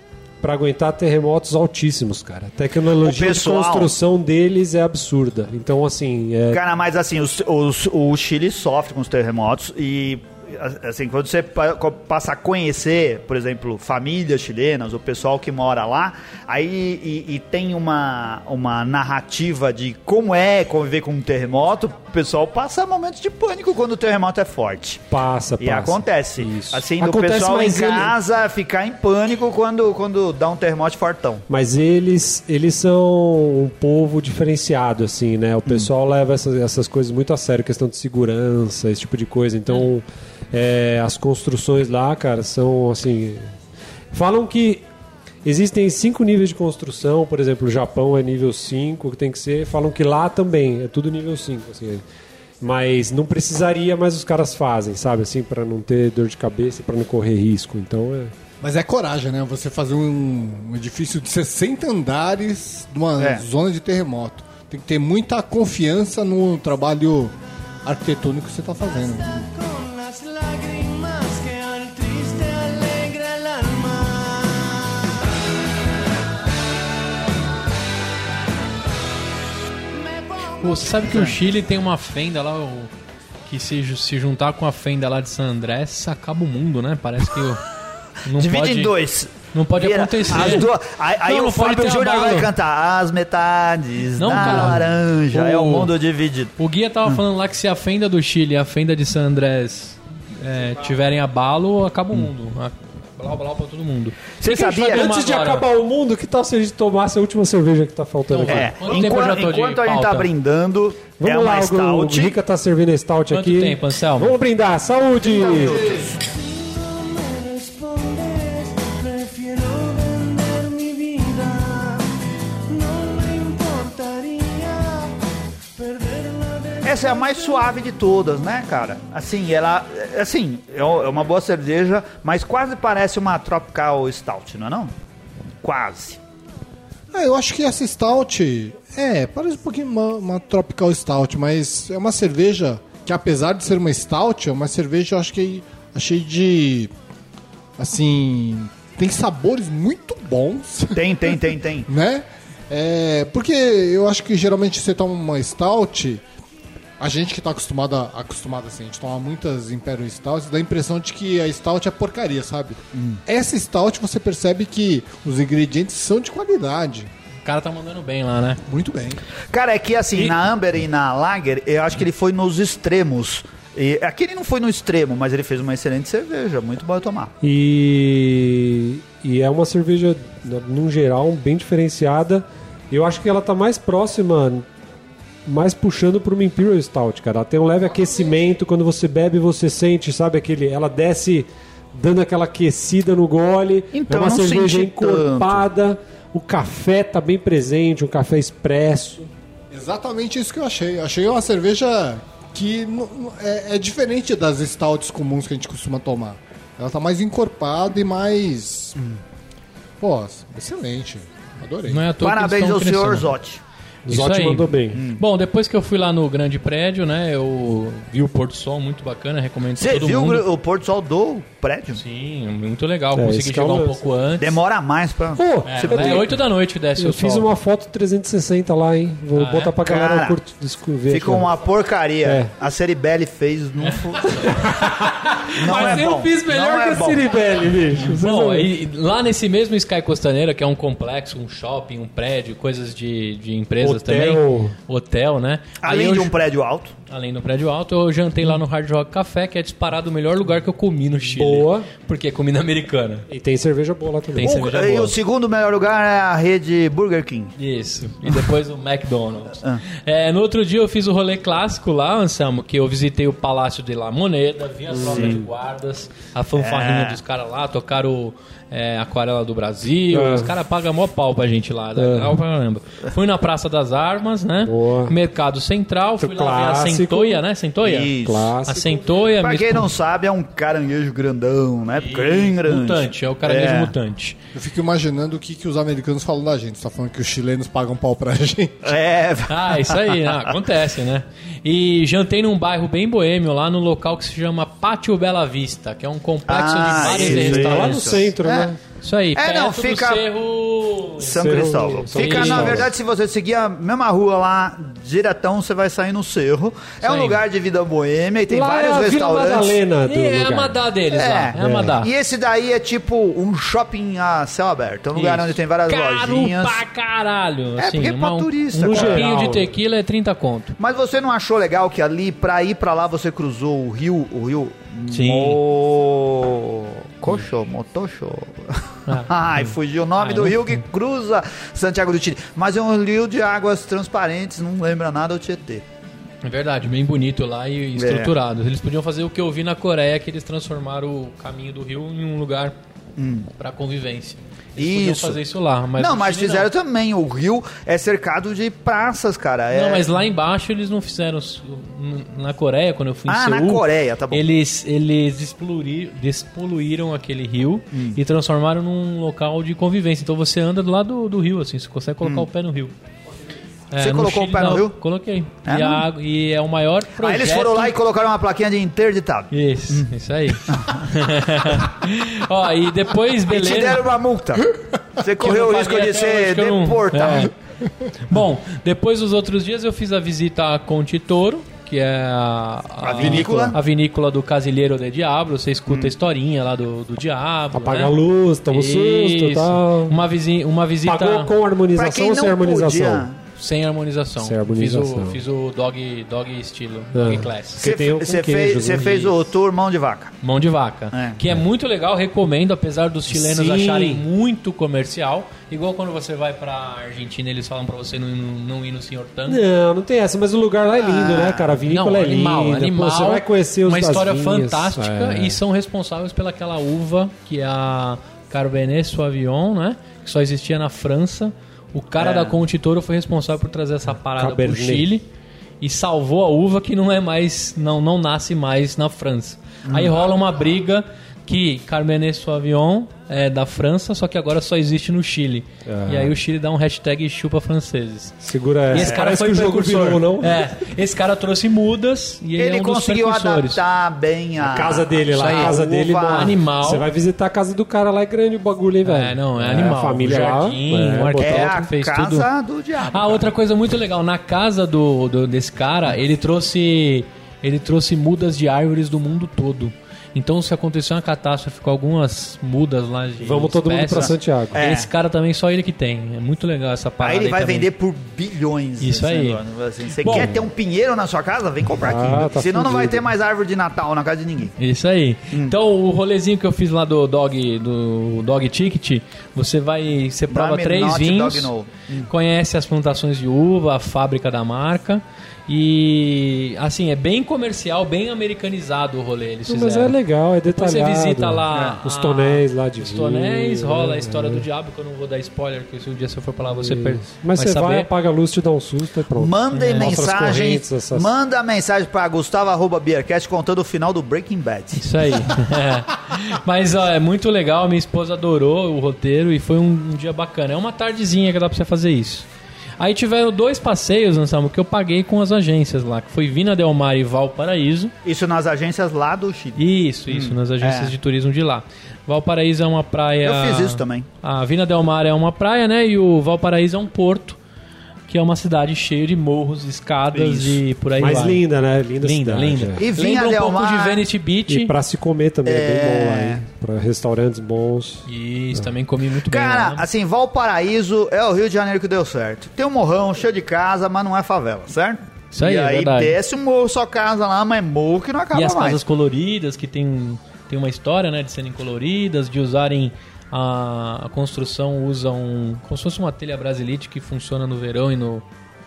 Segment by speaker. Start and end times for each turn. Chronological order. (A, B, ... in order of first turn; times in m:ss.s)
0:00.4-0:06.6 A
0:03.0-0:03.9 B
0:06.5-0:25.0 B
0:25.1-0:28.1 A
0:25.6-0:31.4 B
0:31.5-0:43.5 A
0:44.1-0:44.8 A
0:45.4-0:52.0 A
0:52.6-0:58.3 A
0:58.6-1:09.5 C
1:03.2-1:03.4 B
1:09.2-1:15.2 D
1:19.9-1:21.1 D
1:20.6-1:22.9 E
1:21.1-1:21.3 B
1:23.4-1:27.6 E
1:28.2-1:28.9 E
1:28.4-1:36.5 B
1:29.5-1:30.7 E
1:31.2-1:32.5 E
1:34.2-1:35.9 E
1:36.6-1:45.6 E
1:44.4-1:45.1 B
1:44.8-1:48.7 A
1:48.3-1:50.3 E
1:48.4-1:52.4 B
1:51.2-1:55.9 A
1:53.3-1:54.3 E
1:55.2-1:56.2 B
1:55.7-2:02.1 D
2:02.7-2:05.2 D
2:05.7-2:07.8 D
2:06.8-2:14.9 B
2:15.6-2:16.2 B
2:17.1-2:26.9 C
2:27.8-2:36.2 C
2:30.9-2:31.9 B
2:37.0-2:47.1 C
2:42.9-2:43.2 B
2:47.4-2:48.6 E
2:48.7-2:49.2 C
2:49.5-2:57.3 B
2:57.4-3:04.7 A
3:05.4-3:19.3 A
3:13.9-3:15.6 B
3:19.7-3:29.0 C
3:30.0-3:32.1 C
3:31.9-3:33.3 E
3:32.2-3:33.6 B
3:34.0-3:35.0 A
3:34.1-3:40.4 E
3:34.9-3:35.2 B
3:39.8-3:42.0 B
3:41.9-3:44.6 E
3:43.1-3:44.0 A
3:44.4-3:46.4 B
3:45.3-3:46.3 A
3:45.6-3:47.5 E
3:47.0-3:51.5 A
3:49.3-3:49.8 E
3:49.8-3:50.4 B
3:51.1-3:54.5 B
3:52.2-3:52.5 A
3:54.3-3:54.7 E
3:54.4-3:58.7 A
3:55.4-3:56.1 E
3:55.5-3:57.3 B
3:58.1-4:06.3 E
4:03.8-4:04.7 A
4:05.8-4:06.9 B
4:07.1-4:13.3 E
4:11.3-4:11.9 A
4:13.3-4:14.5 A
4:14.3-4:15.1 E
4:14.4-4:17.5 B
4:17.6-4:39.9 E
4:24.9-4:25.4 A
4:25.0-4:25.4 B
4:26.6-4:27.2 B
4:30.1-4:30.5 A
4:32.0-4:32.4 A
4:34.6-4:35.1 A
4:36.2-4:37.4 A
4:37.8-4:38.5 B
4:38.2-4:39.0 A
4:39.4-4:43.9 B
4:42.0-4:44.4 E
4:44.5-4:48.8 C
4:48.8-4:50.2 B
4:49.5-4:58.2 E
4:56.5-4:58.7 B
4:57.0-4:58.8 A
4:59.0-5:02.9 E
4:59.3-5:00.2 B
5:01.2-5:09.8 B
5:01.2-5:02.9 A
5:07.0-5:07.4 E
5:08.5-5:10.8 A
5:10.0-5:12.1 E
5:11.1-5:16.8 B
5:11.6-5:12.0 A
5:15.1-5:20.7 E
5:17.8-5:19.5 B
5:18.8-5:19.7 A
5:20.8-5:35.8 B
5:25.1-5:25.6 E
5:29.1-5:30.8 E
5:36.4-5:42.7 E
5:38.0-5:38.3 B
5:43.2-5:43.5 B
5:43.6-5:46.7 E
5:44.8-5:45.4 B
5:46.0-5:50.1 B
5:49.7-6:02.9 E
5:53.3-5:54.4 B
6:03.9-6:07.9 E
6:04.0-6:05.0 B
6:05.6-6:06.0 B
6:07.2-6:10.1 B
6:09.5-6:14.0 E
6:10.6-6:11.0 B
6:13.5-6:17.5 B
6:15.4-6:17.5 E
6:18.2-6:28.2 E
6:23.0-6:23.8 B
6:23.2-6:23.7 C
6:27.7-6:30.2 A
6:28.7-6:31.5 E
6:31.0-6:33.3 A
6:31.9-6:33.4 B
6:33.6-6:37.8 E
6:34.4-6:35.4 A
6:37.1-6:39.4 A
6:37.8-6:40.3 B
6:40.4-6:49.6 E
6:41.1-6:41.4 B
6:43.3-6:44.2 A
6:49.5-6:55.6 A
6:51.0-6:51.8 B
6:51.9-7:05.2 E
7:02.2-7:02.6 B
7:04.3-7:05.1 A
7:05.8-7:23.8 E
7:09.9-7:10.1 B
7:15.8-7:16.3 A
7:18.4-7:20.6 A
7:18.9-7:19.2 B
7:22.6-7:26.6 B
7:24.6-7:31.8 A
7:25.3-7:27.0 E
7:29.0-7:32.5 E
7:31.4-7:33.5 B
7:33.1-7:47.9 E
7:43.4-7:44.8 A
7:44.1-7:45.1 B
7:47.2-7:54.7 B
7:49.0-7:49.6 E
7:50.2-7:50.5 E
7:50.2-7:50.6 A
7:52.0-7:53.3 A
7:54.8-8:01.7 E
8:00.5-8:02.3 B
8:02.2-8:18.1 E
8:09.7-8:14.6 A
8:11.7-8:12.0 B
8:16.7-8:21.3 A
8:19.4-8:25.4 B
8:19.7-8:20.2 E
8:24.9-8:32.5 E
8:33.0-8:38.1 E
8:38.2-8:41.2 B
8:39.8-8:47.6 E
8:43.4-8:44.3 B
8:48.3-8:51.6 E
8:50.3-8:50.8 B
8:51.2-8:53.0 A
8:52.2-8:54.9 E
8:53.0-8:54.2 B
8:54.7-8:58.2 A
8:55.6-8:56.6 B
8:58.3-9:00.0 E
8:59.5-9:09.0 B
9:05.5-9:06.4 E
9:08.5-9:18.4 E